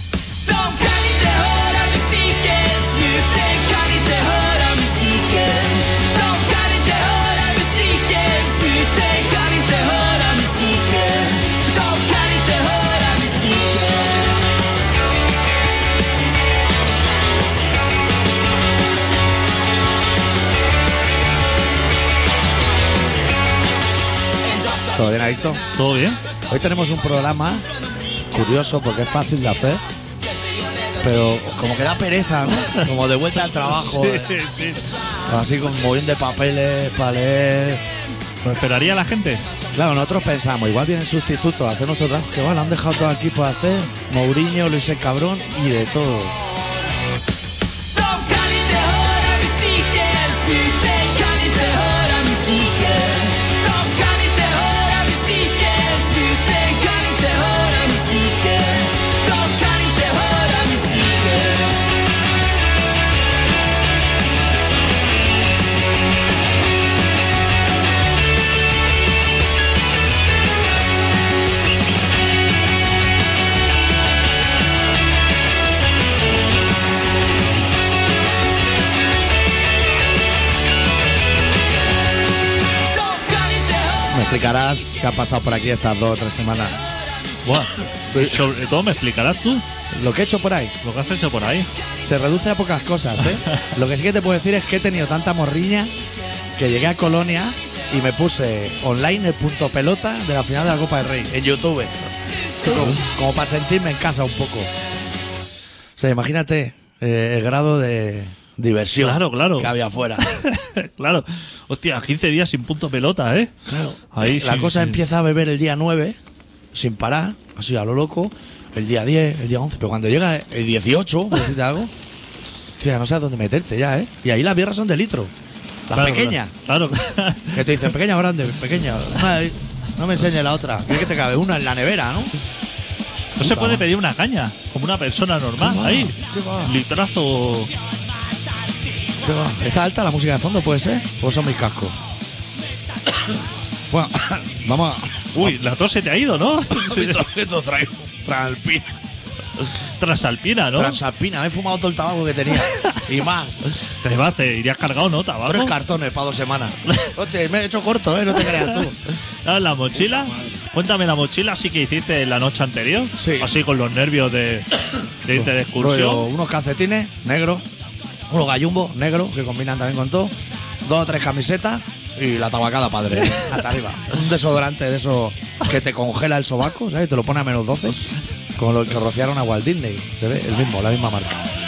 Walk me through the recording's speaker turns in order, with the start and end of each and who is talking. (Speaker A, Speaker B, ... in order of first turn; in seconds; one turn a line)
Speaker A: 0.4-14.3
Speaker A: 24.5-24.9
Speaker B: 24.9-25.6
Speaker C: 25.8-26.2
Speaker B: 26.5-27.7
Speaker B: 28.3-29.8
Speaker B: 31.0-34.3
Speaker C: 33.6-35.0
Speaker B: 35.2-37.8
Speaker C: 38.4-39.4
Speaker B: 39.7-46.4
Speaker A: 47.9-61.8
Speaker A: 82.9-84.2
Speaker B: 84.1-86.8
Speaker C: 87.5-89.7
Speaker B: 88.1-88.5
Speaker B: 89.9-90.7
Speaker C: 90.8-91.7
Speaker B: 92.0-95.9
Speaker B: 96.6-101.9
Speaker B: 102.6-104.7
Speaker B: 106.0-110.3
Speaker C: 109.0-113.5
Speaker B: 113.7-116.2
Speaker C: 114.1-115.0
Speaker B: 116.7-121.9
Speaker B: 122.8-125.3
Speaker B: 125.9-126.5
Speaker C: 126.0-127.9
Speaker B: 127.5-132.3
Speaker B: 133.4-133.9
Speaker C: 133.4-137.7
Speaker B: 135.6-136.7
Speaker B: 139.2-142.0
Speaker B: 143.9-145.6
Speaker C: 145.3-147.2
Speaker B: 146.7-148.9
Speaker C: 149.6-151.0
Speaker B: 150.8-153.6
Speaker C: 152.7-153.0
Speaker C: 153.9-155.8
Speaker B: 155.5-159.0
Speaker C: 156.9-157.2
Speaker C: 159.4-164.7
Speaker B: 163.2-163.5
Speaker C: 165.2-166.3
Speaker B: 165.3-167.7
Speaker B: 168.3-170.3
Speaker B: 170.8-181.4
Speaker C: 173.3-173.5